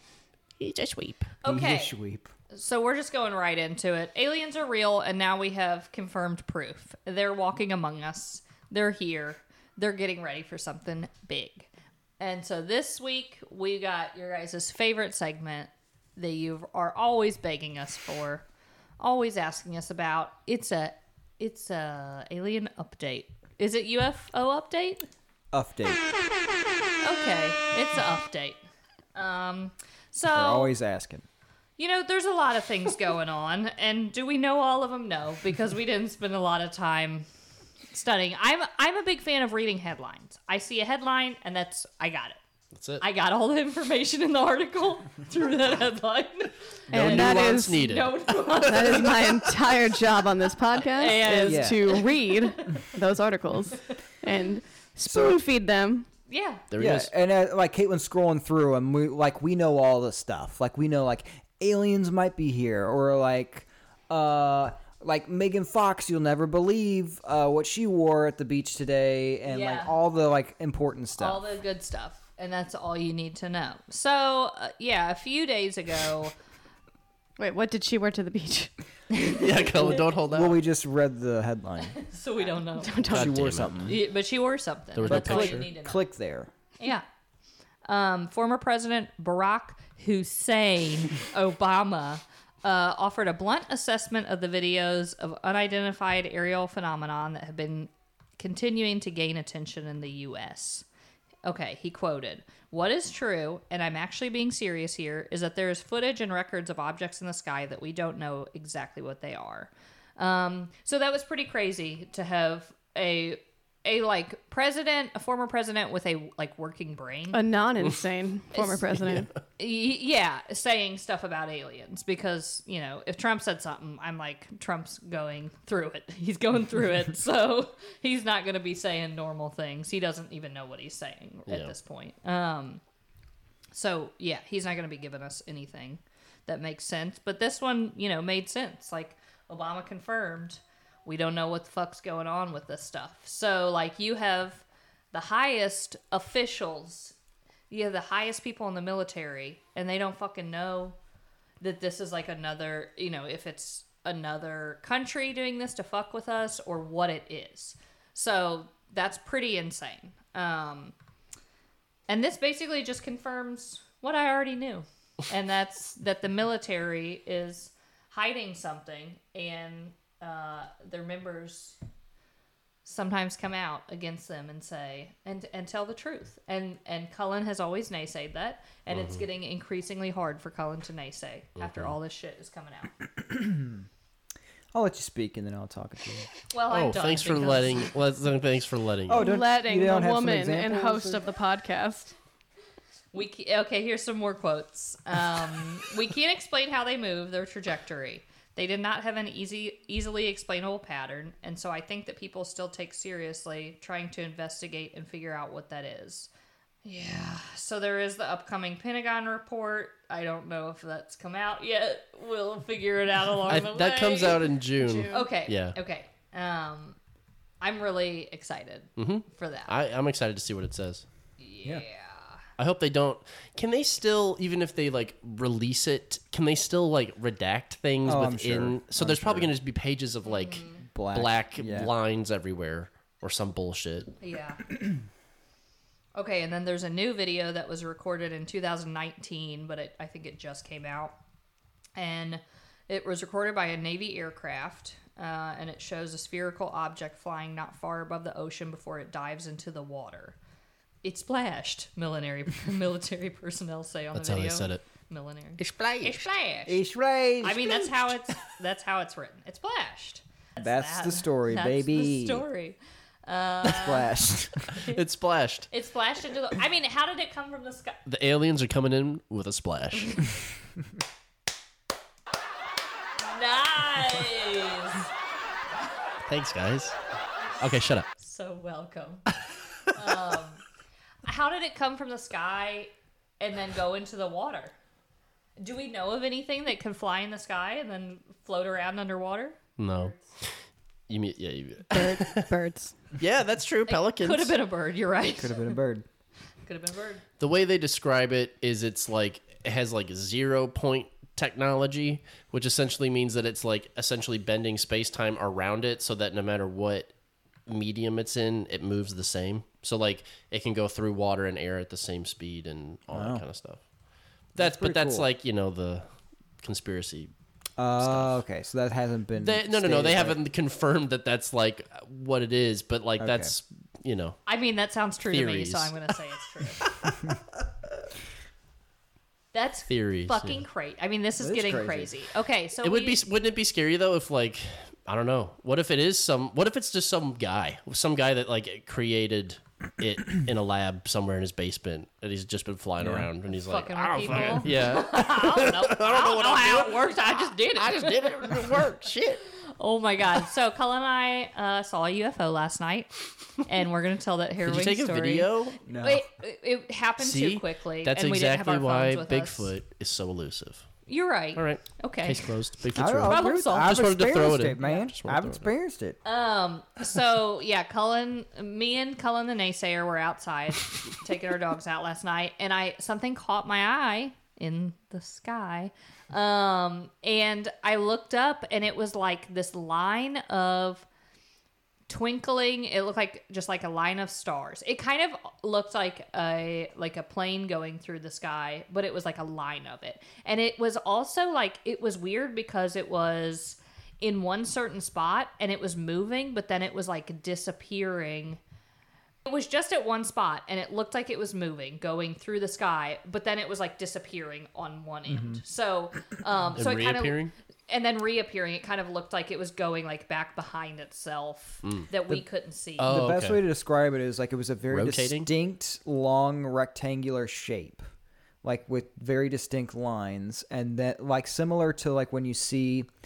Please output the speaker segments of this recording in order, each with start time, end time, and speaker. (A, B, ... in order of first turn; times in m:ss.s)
0:00.6-0:01.3 A
0:01.4-0:01.9 B
0:01.4-0:02.3 C
0:02.5-0:11.7 B
0:12.2-0:18.4 B
0:19.0-0:25.0 B
0:25.5-0:26.0 C
0:27.0-0:28.6 B
0:29.1-0:30.7 B
0:30.3-0:31.2 C
0:31.8-0:37.2 B
0:37.9-0:42.4 B
0:42.7-0:43.0 A
0:43.0-0:49.2 B
0:46.9-0:49.4 A
0:46.9-0:47.9 D
0:48.6-0:56.1 D
0:50.9-0:52.8 B
0:51.4-0:51.8 C
0:55.0-0:55.4 C
0:56.3-0:56.6 B
0:56.7-0:57.1 A
0:56.8-1:11.4 C
1:09.4-1:10.0 B
1:11.2-1:16.3 B
1:17.4-1:18.7 D
1:19.1-1:19.5 B
1:19.2-1:20.6 A
1:19.9-1:22.0 C
1:21.9-1:23.1 B
1:22.7-1:23.4 D
1:23.1-1:24.0 A
1:23.1-1:24.0 C
1:23.8-1:26.0 B
1:24.9-1:25.7 A
1:25.0-1:26.5 C
1:26.8-1:27.0 B
1:27.8-1:40.8 B
1:41.4-1:57.4 B
1:57.3-1:59.3 D
1:58.5-1:58.9 B
1:59.6-2:12.8 B
2:11.5-2:11.7 A
2:13.7-2:27.1 B
2:27.7-2:31.0 B
2:31.6-2:40.9 B
2:42.1-2:51.8 B
2:52.8-3:02.9 B
2:58.9-2:59.2 A
3:01.6-3:02.0 A
3:03.2-3:03.8 C
3:04.7-3:06.3 C
3:06.5-3:07.9 B
3:06.7-3:09.3 A
3:09.1-3:11.2 C
3:09.2-3:12.1 D
3:13.1-3:26.3 B
3:26.8-3:34.4 B
3:33.5-3:35.7 A
3:34.8-3:35.3 D
3:35.1-3:37.0 B
3:37.6-3:39.7 B
3:39.0-3:41.0 A
3:41.4-3:42.4 B
3:42.6-3:54.1 A
3:48.0-3:49.5 C
3:50.2-3:50.8 B
3:50.9-3:51.9 C
3:54.2-3:54.6 B
3:56.1-4:01.2 B
4:02.0-4:10.4 B
4:11.0-4:16.8 B
4:14.1-4:14.8 A
4:15.6-4:16.2 A
4:16.6-4:18.1 C
4:17.4-4:24.1 B
4:20.6-4:22.4 C
4:23.6-4:24.7 C
4:24.7-4:25.0 B
4:24.9-4:25.7 A
4:25.7-4:28.0 B
4:28.0-4:30.3 A
4:33.2-4:35.1 B
4:36.2-4:36.9 A
4:37.6-4:38.1 A
4:38.2-4:39.2 B
4:39.9-4:40.6 B
4:41.2-4:44.7 B
4:45.6-4:50.1 B
4:49.8-4:52.5 A
4:51.9-4:52.9 D
4:53.2-4:54.6 A
4:53.9-4:55.8 B
4:55.4-4:56.0 C
4:56.6-4:57.2 B
4:57.4-5:07.1 A
5:07.7-5:13.8 A
5:13.1-5:13.4 C
5:14.5-5:16.1 A
5:14.6-5:15.3 C
5:16.6-5:17.3 A
5:17.8-5:20.4 C
5:18.0-5:18.4 A
5:19.4-5:24.4 A
5:23.2-5:23.5 C
5:24.5-5:26.8 B
5:25.3-5:26.1 A
5:26.8-5:27.2 A
5:29.5-5:33.2 B
5:29.9-5:30.6 A
5:31.4-5:32.1 C
5:32.8-5:49.4 A
5:43.0-5:43.3 C
5:43.5-5:48.6 B
5:44.3-5:44.7 C
5:49.8-5:59.7 B
5:54.6-5:55.8 A
5:55.8-5:56.2 C
5:57.2-6:00.9 A
6:01.1-6:02.4 B
6:01.5-6:05.7 A
6:02.9-6:06.2 C
6:03.3-6:04.0 B
6:06.2-6:21.0 B
6:22.1-6:38.6 B
6:39.4-6:53.2 B
6:45.3-6:45.6 C
6:46.7-6:47.5 A
6:51.8-6:52.1 A
6:53.0-6:53.6 A
6:53.0-6:58.0 C
6:54.9-6:55.5 A
6:58.6-7:03.1 C